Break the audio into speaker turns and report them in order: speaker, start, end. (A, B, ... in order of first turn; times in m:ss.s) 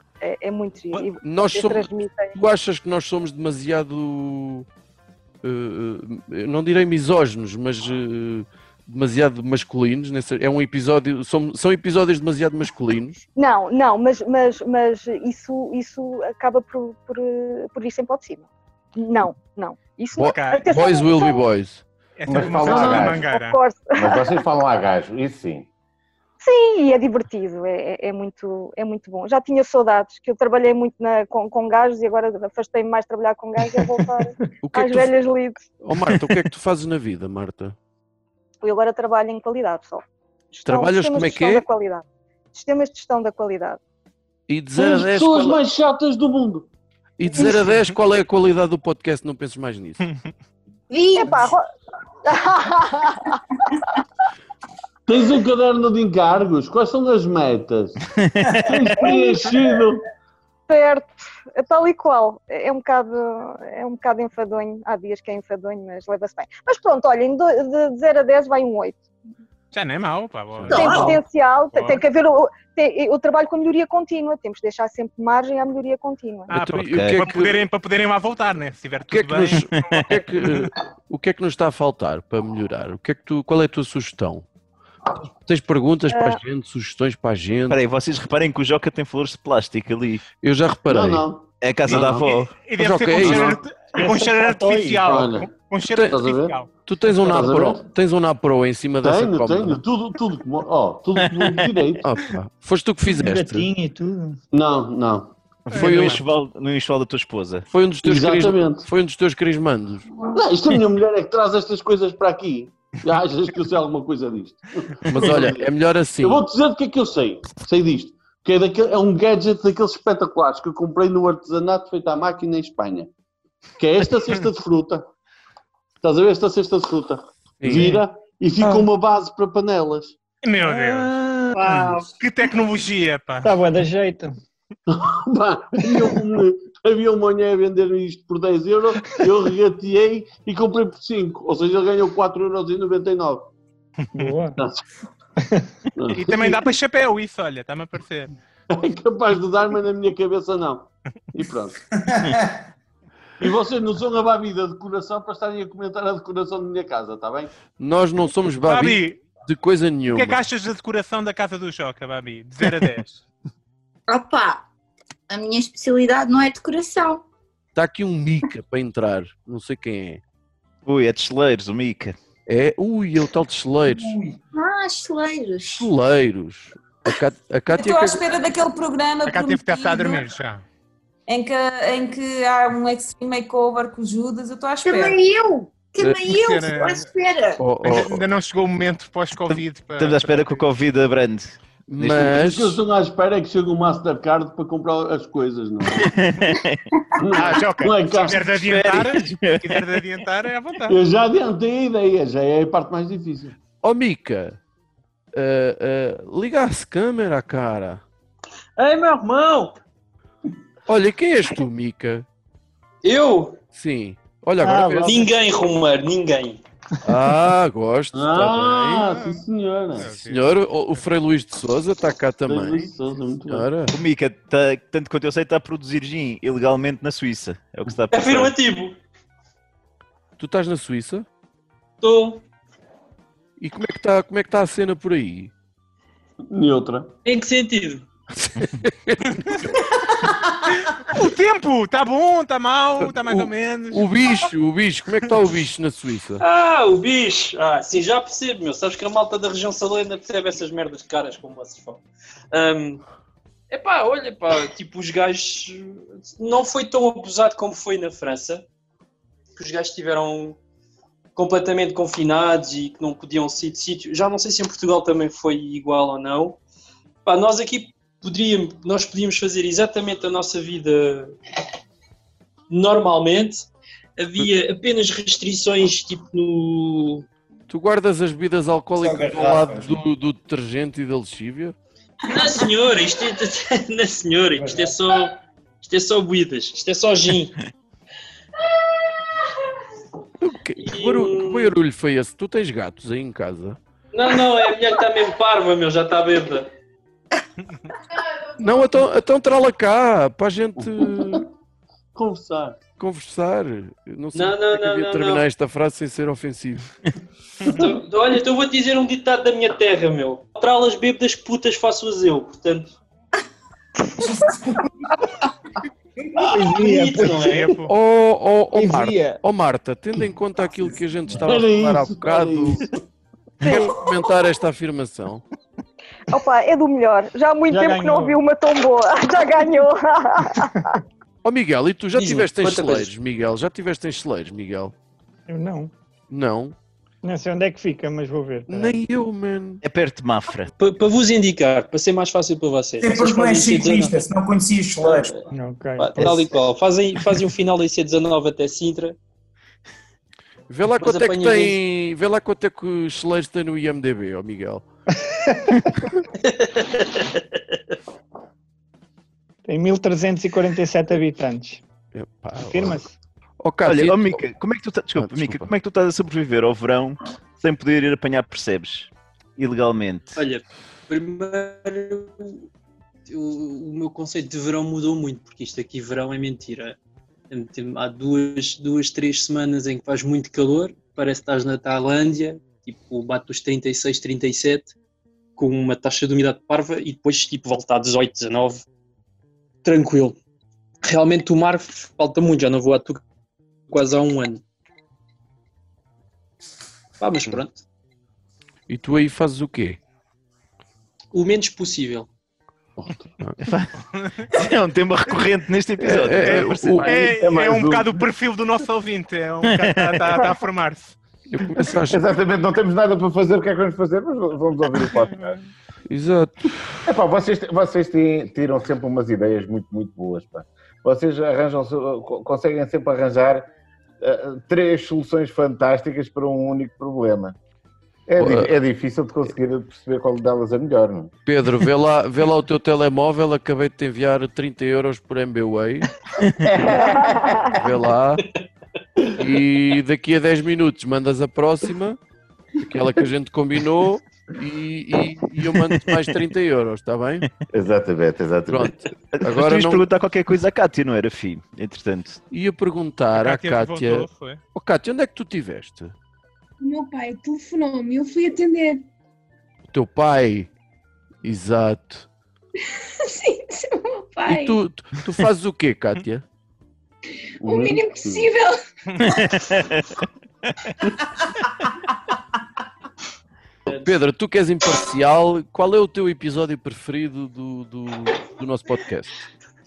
0:00.2-0:02.4 A
0:01.2-0:04.7 B
0:05.4-0:13.2 B
0:13.4-0:21.4 A
0:20.2-0:21.8 B
0:20.3-0:20.6 C
0:22.2-0:23.6 C
0:22.3-0:23.3 D
0:22.6-0:23.0 E
0:22.7-0:24.3 A
0:24.0-0:25.7 D
0:26.4-0:35.6 A
0:34.6-0:35.1 B
0:35.8-0:37.8 B
0:38.6-0:43.8 A
0:40.6-0:41.6 B
0:44.5-0:45.6 B
0:44.7-0:46.7 E
0:47.2-0:50.1 B
0:50.9-0:51.5 F
0:51.1-0:51.6 A
0:52.2-0:53.4 A
0:55.1-0:58.0 E
0:58.2-0:58.6 G
0:58.6-1:00.0 E
1:00.7-1:09.0 A
1:09.7-1:11.1 C
1:10.6-1:11.2 F
1:10.7-1:16.5 A
1:11.7-1:12.0 C
1:16.5-1:20.5 C
1:16.5-1:17.6 B
1:16.9-1:17.2 G
1:19.1-1:24.4 B
1:19.7-1:20.0 G
1:25.2-1:27.8 B
1:26.1-1:26.4 A
1:27.7-1:30.2 G
1:30.4-1:31.2 B
1:30.9-1:32.4 E
1:31.6-1:32.6 G
1:31.9-1:36.7 C
1:32.7-1:33.6 B
1:33.2-1:33.5 E
1:33.9-1:35.1 H
1:35.0-1:35.5 E
1:36.1-1:37.8 E
1:36.8-1:39.8 B
1:39.0-1:42.0 E
1:41.2-1:41.7 G
1:42.0-1:43.6 B
1:43.1-1:44.4 H
1:44.5-1:45.3 E
1:45.7-1:47.7 G
1:45.7-1:46.2 C
1:45.7-1:46.2 B
1:47.7-1:50.1 B
1:48.0-1:48.9 E
1:50.2-1:55.7 E
1:55.1-1:56.4 B
1:56.2-2:03.1 E
2:03.8-2:05.0 E
2:06.0-2:10.2 E
2:07.6-2:08.0 B
2:07.7-2:08.0 H
2:10.4-2:11.1 C
2:12.1-2:13.5 C
2:13.4-2:14.3 H
2:14.9-2:23.5 E
2:24.1-2:24.6 H
2:24.6-2:24.8 E
2:25.9-2:26.6 E
2:26.1-2:28.3 C
2:28.7-2:31.8 E
2:32.2-2:32.4 I
2:33.4-2:37.5 E
2:37.8-2:40.4 B
2:38.6-2:39.2 C
2:40.1-2:43.2 C
2:44.1-2:44.6 F
2:45.3-2:47.2 F
2:47.8-2:50.2 B
2:50.8-2:52.2 G
2:52.5-2:54.2 B
2:54.5-2:55.9 F
2:55.7-2:58.2 B
2:57.7-3:00.2 J
2:59.2-3:00.6 C
3:01.3-3:05.2 J
3:04.8-3:07.6 F
3:06.3-3:07.1 C
3:07.6-3:08.2 B
3:07.8-3:10.6 C
3:09.5-3:12.3 G
3:11.9-3:12.8 B
3:12.2-3:16.1 E
3:16.0-3:16.8 G
3:17.2-3:18.5 E
3:17.3-3:21.0 C
3:18.4-3:20.0 G
3:20.9-3:23.5 E
3:23.8-3:24.6 B
3:25.3-3:28.0 B
3:28.8-3:29.8 K
3:30.9-3:32.2 B
3:33.0-3:33.6 K
3:33.7-3:35.3 B
3:34.6-3:35.2 H
3:35.0-3:36.6 K
3:37.0-3:39.1 B
3:38.1-3:40.1 E
3:39.1-3:39.4 C
3:39.9-3:41.0 C
3:40.0-3:42.9 B
3:42.4-3:43.7 E
3:43.5-3:43.9 B
3:43.9-3:48.5 G
3:48.1-3:49.0 K
3:50.4-3:51.2 B
3:52.0-3:52.4 K
3:53.6-3:55.5 B
3:56.5-3:57.1 E
3:57.2-3:58.0 K
3:58.4-3:59.8 B
4:01.0-4:04.1 C
4:03.0-4:06.4 B
4:06.4-4:13.0 K
4:13.7-4:18.6 K
4:19.6-4:20.6 K
4:21.3-4:26.6 K
4:27.2-4:31.4 K
4:32.7-4:37.2 K
4:37.7-4:41.7 B
4:39.0-4:40.0 I
4:42.3-4:47.6 K
4:50.4-4:53.8 B
4:50.8-4:51.7 K
4:54.1-4:56.7 K
4:58.6-5:01.4 B
5:00.8-5:01.4 E
5:02.1-5:02.8 E
5:03.0-5:06.9 B
5:04.3-5:05.4 K
5:07.7-5:12.9 K
5:16.3-5:17.8 H
5:16.7-5:17.7 K
5:17.4-5:17.9 C
5:17.9-5:22.8 B
5:18.7-5:19.4 H
5:21.4-5:23.0 E
5:23.6-5:25.4 B
5:26.3-5:30.7 A
5:27.7-5:28.4 H
5:31.4-5:34.9 B
5:32.1-5:33.1 K
5:35.5-5:35.9 H
5:36.3-5:36.7 B
5:37.2-5:39.0 H
5:38.7-5:39.8 B
5:39.8-5:40.7 G
5:40.8-5:44.2 K
5:43.0-5:45.4 I
5:45.0-5:45.4 K
5:45.5-5:46.4 H
5:46.0-5:49.2 K
5:50.7-5:54.8 B
5:51.0-5:51.8 K
5:55.4-5:55.8 H
5:56.4-5:57.4 K
5:59.6-6:01.8 H
6:02.1-6:03.0 B
6:02.6-6:03.1 H
6:03.6-6:04.4 B
6:03.8-6:10.4 G
6:05.2-6:05.7 B
6:10.3-6:12.7 K
6:13.3-6:17.0 K
6:17.5-6:24.9 K
6:25.6-6:28.8 K
6:29.8-6:30.4 K
6:31.0-6:33.2 K
6:33.9-6:34.6 K
6:37.2-6:37.8 K
6:38.9-6:40.0 B
6:41.3-6:42.3 K
6:43.6-6:43.9 G
6:44.1-6:44.5 C
6:44.5-6:47.1 G
6:46.0-6:47.1 B
6:46.3-6:51.2 C
6:47.0-6:48.1 D
6:49.7-6:50.2 G
6:51.5-6:52.2 B
6:52.1-6:55.6 D
6:55.1-6:55.6 C
6:56.1-6:57.0 B
6:57.0-7:03.7 D
7:04.2-7:07.5 D
7:08.3-7:11.3 D
7:08.4-7:08.7 B
7:11.4-7:16.1 B
7:16.8-7:17.7 A
7:17.7-7:18.4 B
7:19.4-7:22.2 B
7:22.8-7:27.4 B
7:27.7-7:28.9 D
7:28.7-7:30.0 B
7:29.3-7:32.4 G
7:32.5-7:36.1 B
7:33.3-7:34.6 C
7:36.8-7:39.0 L
7:39.9-7:40.7 B
7:41.4-7:42.3 B
7:42.8-7:44.8 L
7:44.5-7:46.4 B
7:47.6-7:48.5 E
7:47.6-7:48.8 L
7:49.2-7:50.1 G
7:54.0-7:59.4 B